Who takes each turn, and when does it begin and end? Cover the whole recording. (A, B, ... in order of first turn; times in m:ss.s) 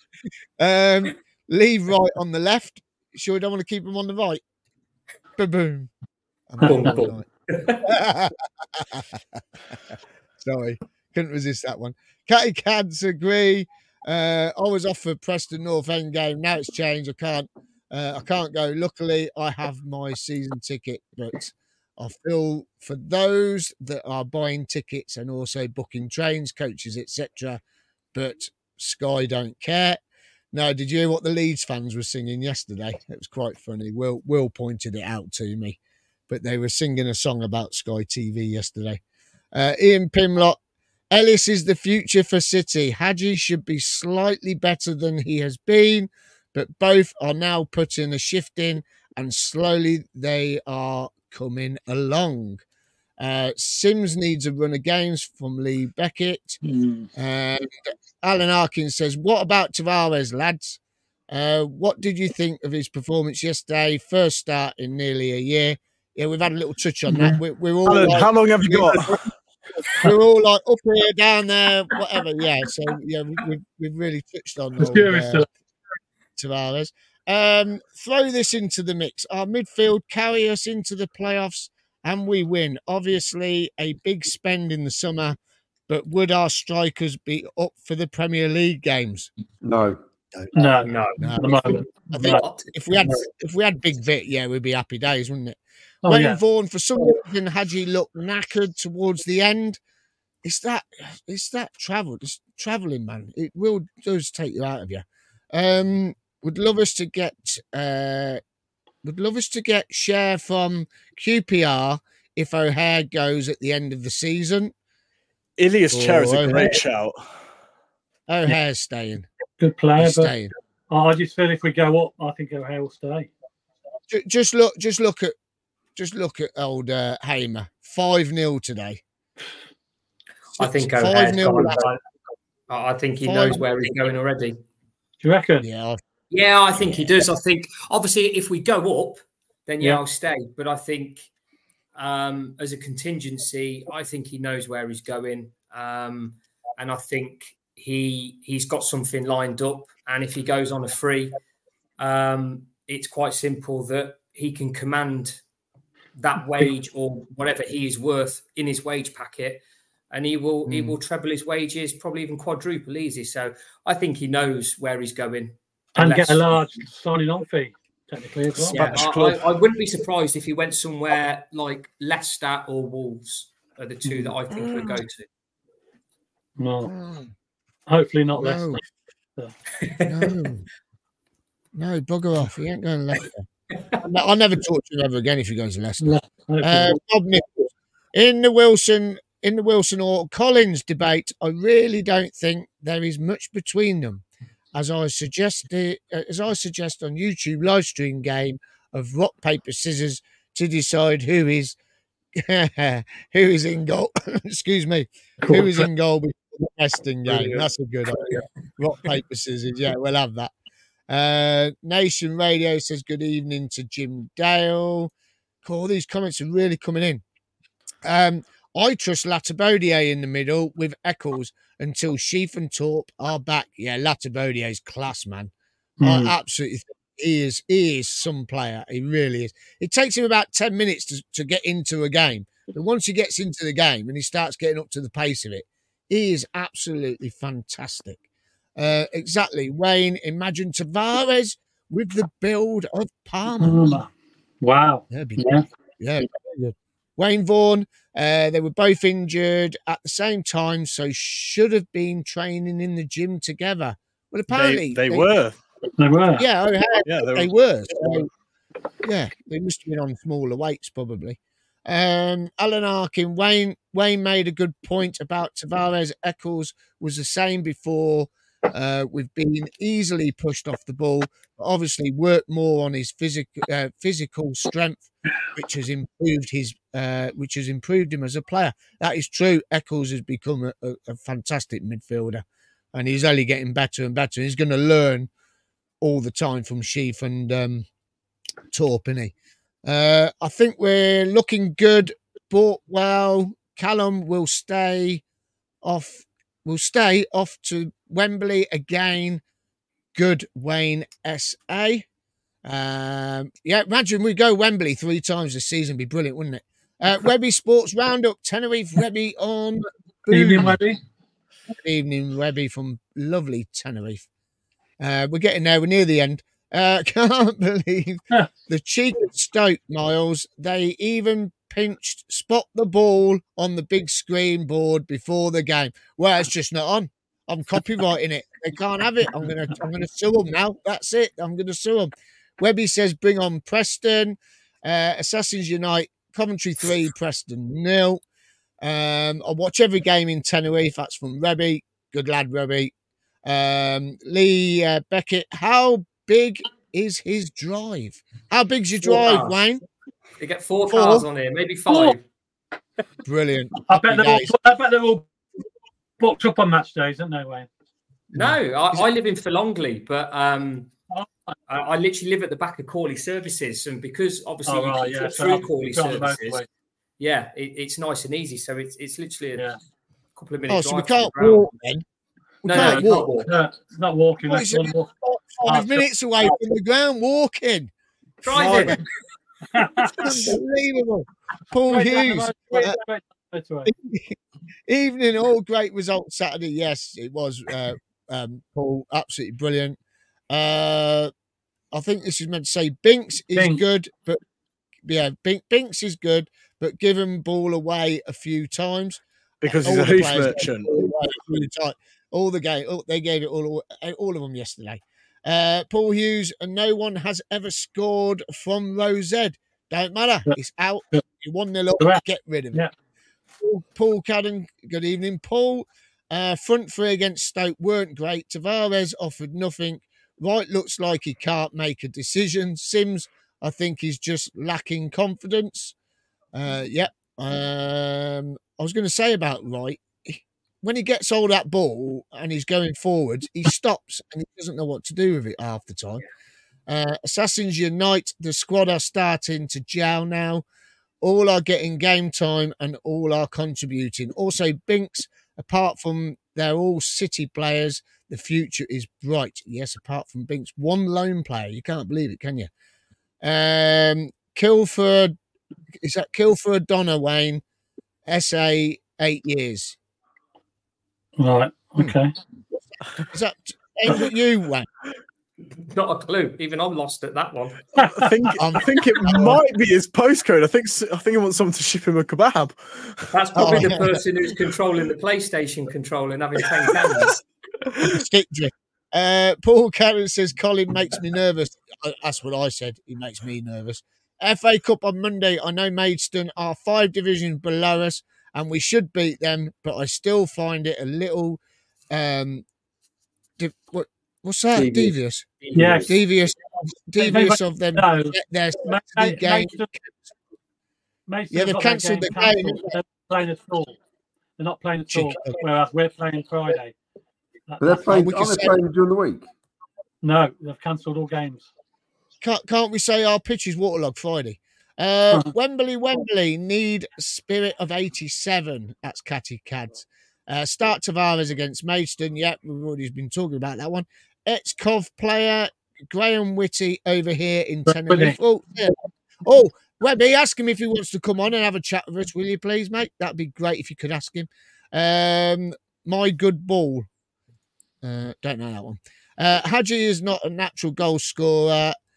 0:00.6-0:04.4 A
0:05.4-0:05.9 A
0:06.5-0:07.3 A
0:06.6-0:07.0 B
0:06.6-0:07.9 C
0:07.8-0:09.4 A
0:10.4-0:27.6 A
0:28.1-0:30.0 A
0:30.5-0:35.8 A
0:36.3-0:39.0 A
0:39.5-0:40.6 A
0:41.1-0:52.6 A
0:53.2-0:56.6 A
0:56.6-0:57.1 B
0:57.2-1:15.4 A
1:07.1-1:07.4 B
1:07.8-1:09.1 D
1:14.8-1:15.5 B
1:16.4-1:25.4 A
1:25.9-1:29.3 A
1:29.6-1:30.0 E
1:30.5-1:32.4 B
1:30.8-1:32.7 C
1:31.2-1:39.8 A
1:36.0-1:36.4 B
1:40.4-1:48.4 A
1:49.0-1:54.7 A
1:55.6-1:57.2 D
1:55.9-1:56.7 A
1:58.3-1:59.3 A
1:59.6-2:00.3 B
2:00.0-2:00.5 A
2:00.9-2:03.3 B
2:04.1-2:05.4 A
2:06.0-2:09.0 A
2:10.6-2:11.9 A
2:10.6-2:12.0 C
2:12.7-2:14.6 C
2:13.2-2:13.7 A
2:15.2-2:15.7 B
2:15.6-2:16.0 A
2:16.3-2:21.3 C
2:22.0-2:31.3 C
2:32.0-2:35.4 C
2:36.2-2:46.6 C
2:40.7-2:41.0 A
2:46.0-2:49.0 B
2:48.7-2:55.3 C
2:48.8-2:49.4 D
2:54.2-2:54.8 A
2:56.6-2:56.9 B
2:56.9-2:57.3 A
2:57.9-2:58.8 B
2:58.4-2:58.8 A
2:59.8-3:00.3 C
3:00.1-3:00.6 A
3:01.8-3:03.5 A
3:04.0-3:21.8 A
3:06.0-3:07.0 B
3:22.4-3:30.5 A
3:25.4-3:25.8 B
3:31.1-3:35.1 A
3:35.6-3:37.2 A
3:38.0-3:45.5 A
3:46.0-3:46.3 B
3:46.0-3:58.2 A
3:58.8-4:04.0 A
4:03.6-4:04.1 B
4:04.6-4:05.6 B
4:05.1-4:15.3 A
4:14.5-4:15.6 D
4:16.0-4:16.4 B
4:16.4-4:18.3 A
4:17.1-4:17.5 D
4:19.0-4:45.3 A
4:46.0-4:47.9 A
4:48.7-4:49.3 A
4:49.8-4:55.2 A
4:55.8-4:59.4 A
5:00.2-5:02.1 A
5:02.6-5:10.8 A
5:10.3-5:11.0 B
5:11.8-5:14.2 A
5:15.0-5:38.2 A
5:38.8-5:42.9 A
5:43.4-5:49.8 A
5:49.0-5:49.6 C
5:50.4-5:52.2 C
5:50.9-5:51.3 A
5:51.9-5:52.1 B
5:53.3-5:54.5 A
5:53.8-5:55.3 B
5:56.2-5:57.7 B
5:58.3-5:59.0 A
5:58.4-6:00.9 C
6:01.7-6:06.6 C
6:04.7-6:06.6 B
6:07.2-6:09.7 C
6:10.4-6:11.7 C
6:10.7-6:12.0 A
6:12.6-6:13.6 C
6:12.7-6:13.3 A
6:12.7-6:15.1 B
6:14.5-6:17.9 A
6:15.6-6:16.0 B
6:18.4-6:19.0 C
6:18.4-6:19.0 A
6:19.7-6:20.5 B
6:20.2-6:23.0 A
6:21.9-6:23.9 B
6:23.9-6:30.0 A
6:30.5-6:31.3 A
6:31.9-6:34.4 A
6:33.6-6:33.8 B
6:35.0-6:52.9 A
6:39.6-6:41.0 D
6:53.6-7:06.0 A
7:06.5-7:16.2 A
7:16.9-7:20.6 A
7:21.2-7:32.7 A
7:33.4-7:35.4 A
7:36.0-7:37.6 A
7:38.3-7:40.0 A
7:41.4-7:42.3 B
7:43.2-7:44.9 A
7:45.9-7:48.0 C
7:48.0-7:48.3 B
7:48.1-7:53.3 D
7:48.6-7:49.6 A
7:53.3-7:57.4 C
7:53.6-7:54.2 A
7:58.0-8:12.6 A
8:13.6-8:20.3 A
8:15.6-8:16.0 C
8:15.7-8:16.2 B
8:17.2-8:19.9 B
8:21.3-8:24.0 B
8:21.5-8:22.9 A
8:24.6-8:27.0 B
8:25.1-8:25.6 A
8:27.7-8:28.1 B
8:27.8-8:29.5 E
8:28.1-8:28.8 A
8:30.2-8:31.7 B
8:32.4-8:57.1 A
8:47.9-8:48.4 B
8:58.0-9:02.0 A